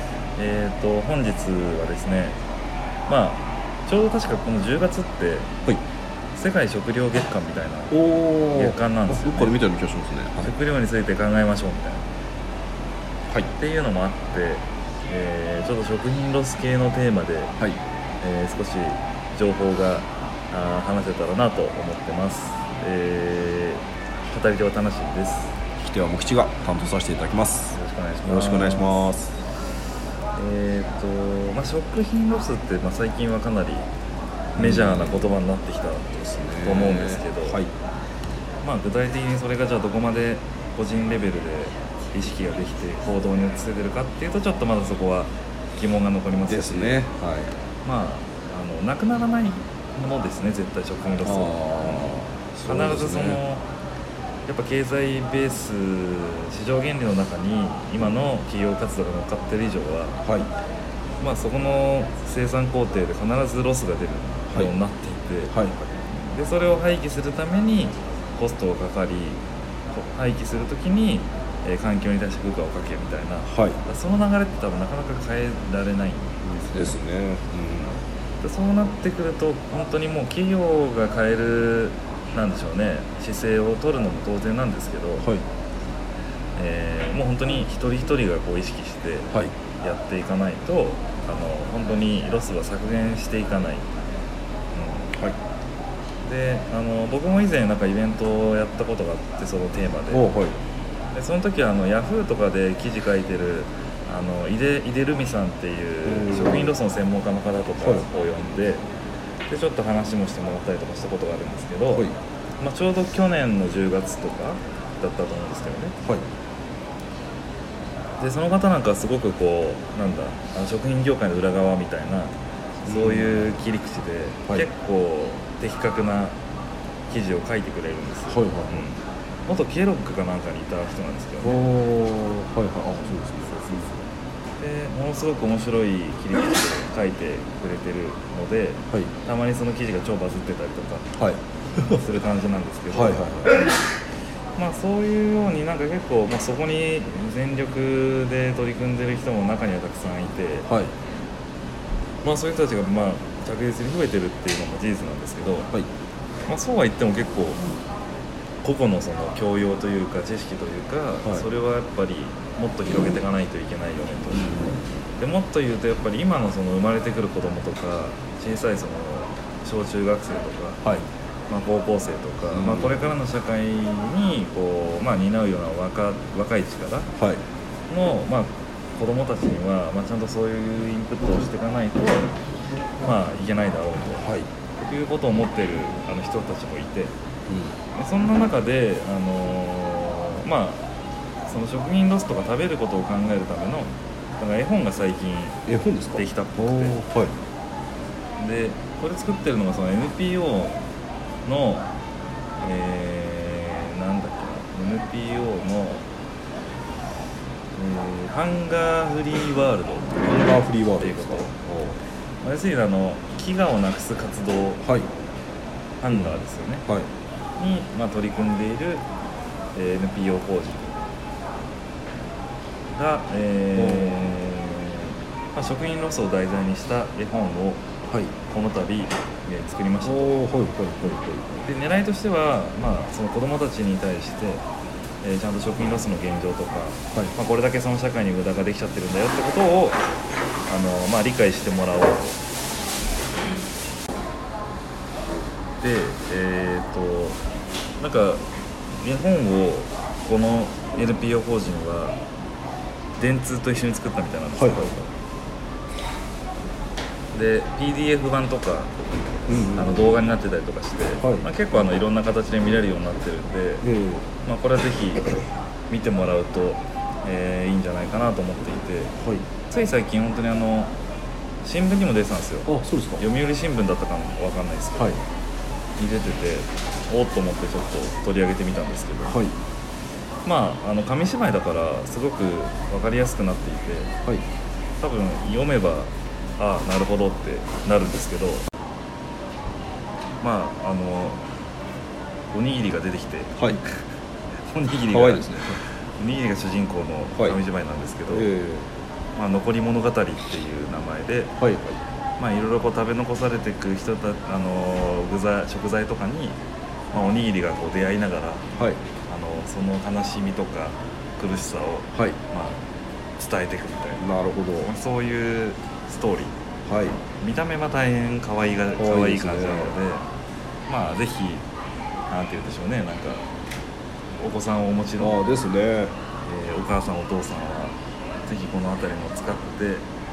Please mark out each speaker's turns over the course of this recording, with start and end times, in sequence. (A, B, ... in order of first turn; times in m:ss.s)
0:00.4-0:02.4 A
0:03.1-0:05.5 A
0:06.3-0:08.0 A
0:07.9-0:10.5 B
0:08.5-0:09.6 A
0:10.4-0:12.0 A
0:13.6-0:17.6 A
0:18.2-0:25.6 A
0:25.8-0:29.3 B
0:27.7-0:29.1 A
0:30.4-0:33.9 A
0:34.6-0:35.4 B
0:34.6-0:36.1 A
0:36.1-0:37.7 B
0:36.6-0:37.6 A
0:38.6-0:47.0 A
0:46.5-0:47.5 B
0:47.8-0:53.7 A
0:51.2-0:53.4 B
0:54.5-1:00.2 A
1:00.2-1:00.5 B
1:01.2-1:17.0 A
1:05.5-1:05.8 B
1:13.5-1:13.8 B
1:16.7-1:18.0 B
1:18.4-1:25.3 A
1:26.6-1:33.9 A
1:34.7-1:35.2 A
1:36.2-1:40.3 A
1:40.1-1:40.6 B
1:41.1-1:48.8 A
1:46.0-1:46.8 B
1:47.8-1:48.1 B
1:49.5-1:56.0 A
1:51.9-1:52.2 B
1:58.2-2:02.3 A
2:02.8-2:03.5 B
2:02.9-2:06.4 A
2:07.1-2:11.7 A
2:08.3-2:08.9 B
2:11.4-2:14.0 B
2:14.6-2:21.1 A
2:21.2-2:22.1 B
2:21.9-2:23.2 A
2:22.9-2:23.6 B
2:24.6-2:30.7 A
2:30.7-2:30.9 B
2:32.2-2:35.7 A
2:36.5-2:37.6 A
2:38.6-2:50.8 A
2:41.2-2:41.5 B
2:44.4-2:44.7 B
2:51.5-2:57.1 A
2:52.5-2:53.0 B
2:57.2-2:57.4 B
2:57.9-3:02.4 A
3:03.0-3:04.3 A
3:04.2-3:04.5 B
3:04.8-3:07.1 A
3:07.5-3:07.8 B
3:07.9-3:10.8 A
3:11.4-3:15.6 A
3:15.7-3:17.4 B
3:16.2-3:17.0 A
3:18.4-3:20.8 A
3:21.4-3:21.9 A
3:22.6-3:26.1 A
3:27.7-3:31.6 A
3:30.2-3:32.0 B
3:32.4-3:34.8 A
3:34.8-3:35.1 B
3:36.0-3:36.8 A
3:36.1-3:37.1 B
3:37.6-3:39.1 A
3:39.8-3:41.0 A
3:43.0-3:47.8 A
3:43.8-3:44.4 B
3:48.1-3:48.4 B
3:48.5-3:50.4 A
3:50.0-3:51.7 B
3:51.6-3:54.6 A
3:55.2-4:00.0 A
4:00.7-4:02.4 A
4:05.8-4:07.4 A
4:08.0-4:12.2 A
4:13.2-4:15.1 A
4:14.6-4:15.0 B
4:17.3-4:18.9 A
4:19.5-4:20.3 B
4:19.8-4:23.9 A
4:21.2-4:21.5 B
4:23.8-4:24.3 B
4:24.4-4:29.1 A
4:29.2-4:29.5 B
4:29.7-4:30.9 A
4:31.6-4:35.2 A
4:32.7-4:33.3 B
4:36.0-4:39.4 A
4:39.3-4:39.6 B
4:40.4-4:44.1 A
4:45.0-4:48.7 A
4:50.4-4:51.4 A
4:52.5-4:54.1 A
4:54.7-4:55.6 A
4:55.1-4:55.8 B
4:56.2-4:58.5 A
4:58.3-4:58.9 B
4:59.4-5:01.6 A
5:01.6-5:02.0 B
5:02.4-5:06.6 A
5:07.1-5:08.7 A
5:08.8-5:09.0 B
5:09.3-5:12.8 A
5:12.1-5:12.4 B
5:13.4-5:14.3 A
5:14.2-5:14.9 B
5:14.8-5:16.6 A
5:16.9-5:17.2 B
5:17.3-5:20.3 A
5:19.0-5:20.0 B
5:20.9-5:21.7 A
5:22.3-5:23.5 A
5:24.4-5:25.4 A
5:25.2-5:26.2 B
5:26.4-5:30.1 A